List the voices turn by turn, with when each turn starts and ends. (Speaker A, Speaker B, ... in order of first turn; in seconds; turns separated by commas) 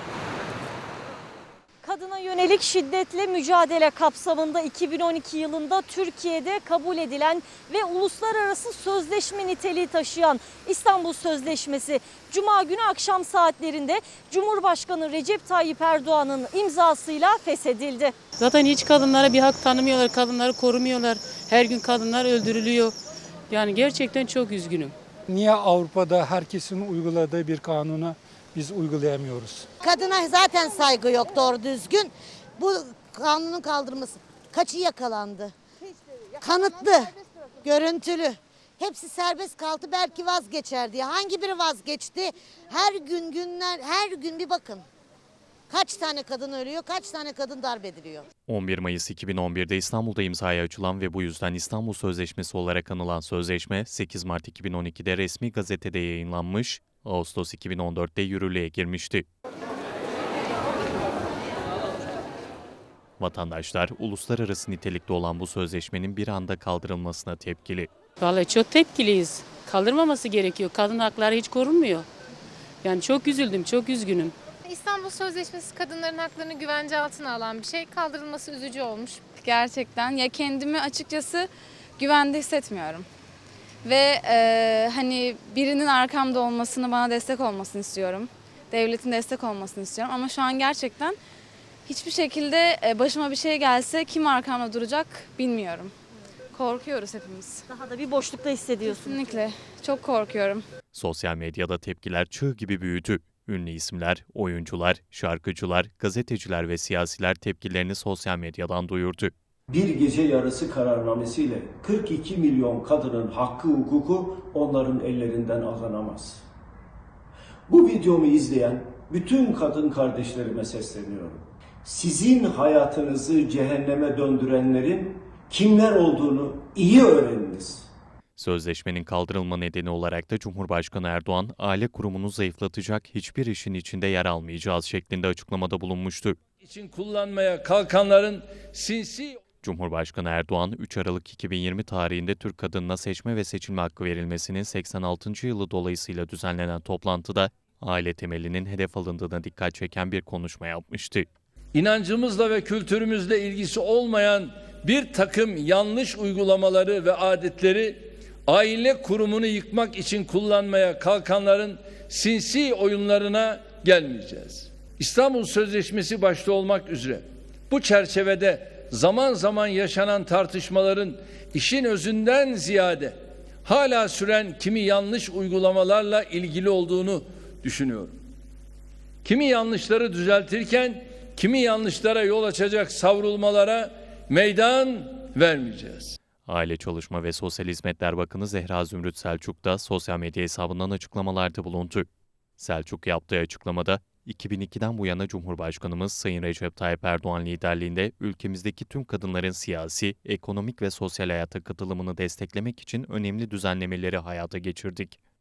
Speaker A: 1.8-18.1, Speaker B: 18.4-22.9, Speaker B: 23.5-24.9, Speaker C: 25.3-28.1, Speaker C: 28.7-29.6, Speaker D: 29.8-35.5, Speaker D: 36.4-44.9, Speaker D: 45.7-48.3, Speaker E: 48.5-59.3, Speaker E: 63.2-67.9, Speaker B: 68.2-72.1, Speaker B: 72.8-74.3, Speaker F: 74.7-79.2, Speaker G: 79.3-83.1, Speaker G: 83.8-91.2, Speaker G: 91.9-95.9, Speaker G: 96.5-97.7, Speaker A: 97.7-99.2, Speaker G: 98.8-100.6, Speaker E: 100.9-109.3, Speaker H: 109.7-116.5, Speaker H: 117.7-127.9, Speaker E: 128.4-136.4, Speaker I: 136.6-139.4, Speaker E: 139.6-151.3, Speaker I: 151.7-178.2, Speaker I: 179.2-186.2, Speaker E: 186.4-205.2